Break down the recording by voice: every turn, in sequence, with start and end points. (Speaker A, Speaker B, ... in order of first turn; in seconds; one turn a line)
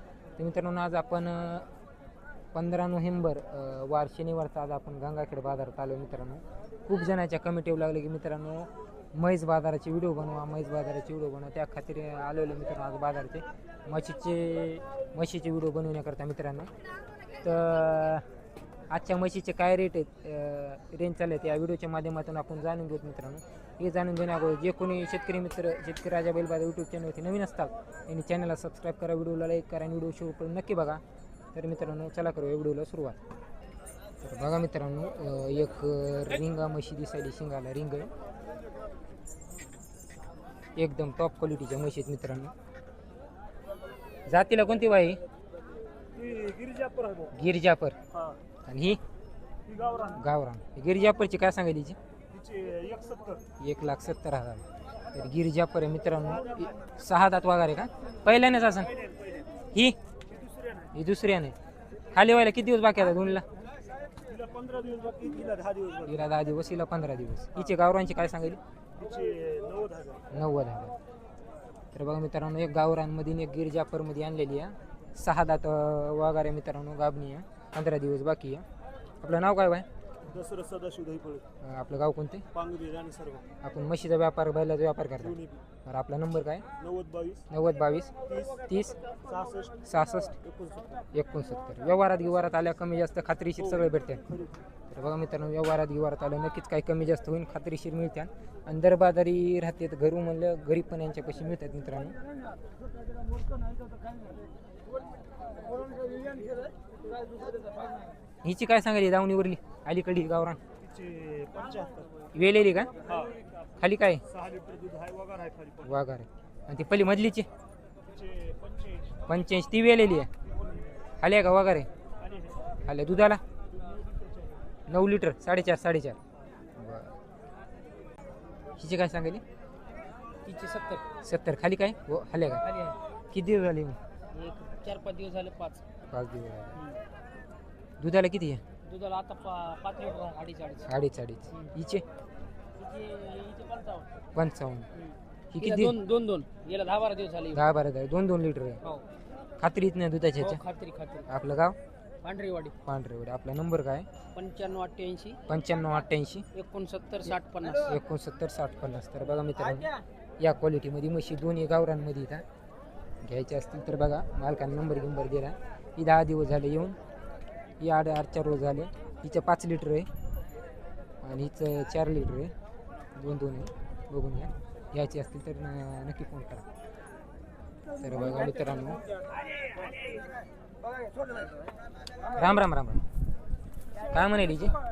Speaker A: 0.4-1.7
Speaker A: 2.5-16.7
Speaker A: 17.4-18.2
Speaker A: 18.9-31.0
Speaker A: 31.5-33.2
Speaker A: 34.2-38.1
Speaker A: 40.8-42.5
Speaker A: 44.3-45.2
Speaker B: 46.1-47.3
Speaker A: 47.3-48.0
Speaker B: 48.1-48.4
Speaker A: 48.7-49.0
Speaker B: 49.6-50.2
Speaker A: 50.1-52.0
Speaker B: 52.3-53.4
Speaker A: 53.6-58.9
Speaker B: 58.8-59.5
Speaker A: 59.7-60.0
Speaker B: 60.3-60.9
Speaker A: 60.9-61.5
Speaker A: 62.1-63.4
Speaker B: 64.2-66.2
Speaker A: 66.0-68.6
Speaker B: 68.9-70.2
Speaker A: 70.3-71.0
Speaker A: 71.9-78.6
Speaker A: 79.2-79.8
Speaker B: 80.2-81.4
Speaker A: 81.6-82.4
Speaker B: 82.5-83.5
Speaker A: 83.6-86.6
Speaker B: 85.2-85.6
Speaker B: 86.8-87.4
Speaker A: 87.5-88.1
Speaker B: 88.2-91.0
Speaker A: 88.7-89.0
Speaker A: 89.8-90.3
Speaker A: 91.1-94.2
Speaker B: 93.6-94.7
Speaker A: 94.9-102.2
Speaker B: 103.2-104.4
Speaker B: 105.7-106.5
Speaker A: 108.4-110.6
Speaker B: 110.8-112.2
Speaker A: 112.3-112.9
Speaker B: 113.0-113.6
Speaker A: 113.8-114.2
Speaker B: 114.2-115.9
Speaker A: 115.8-117.5
Speaker B: 118.0-119.2
Speaker A: 119.3-120.3
Speaker B: 120.4-121.0
Speaker A: 121.2-121.9
Speaker B: 122.2-122.6
Speaker A: 122.8-123.4
Speaker B: 123.7-124.6
Speaker A: 124.9-126.2
Speaker A: 126.8-127.1
Speaker A: 128.8-129.4
Speaker C: 130.4-131.0
Speaker A: 131.2-132.7
Speaker C: 132.6-133.0
Speaker A: 133.3-134.0
Speaker C: 134.3-135.8
Speaker A: 136.1-136.8
Speaker A: 138.0-138.6
Speaker C: 138.8-140.9
Speaker A: 140.9-142.0
Speaker C: 142.8-144.1
Speaker A: 144.3-144.9
Speaker C: 144.9-147.6
Speaker A: 145.5-145.9
Speaker A: 147.5-148.8
Speaker A: 149.6-150.6
Speaker C: 150.4-151.3
Speaker A: 151.3-151.8
Speaker C: 152.2-152.7
Speaker A: 152.8-154.1
Speaker C: 154.3-155.4
Speaker A: 155.5-156.4
Speaker C: 156.5-158.0
Speaker A: 157.8-159.9
Speaker C: 159.6-160.0
Speaker A: 160.4-162.4
Speaker A: 163.2-167.0
Speaker A: 167.8-170.1
Speaker A: 171.2-172.5
Speaker A: 173.2-176.6
Speaker A: 178.0-179.0
Speaker A: 182.3-183.0
Speaker A: 184.1-184.7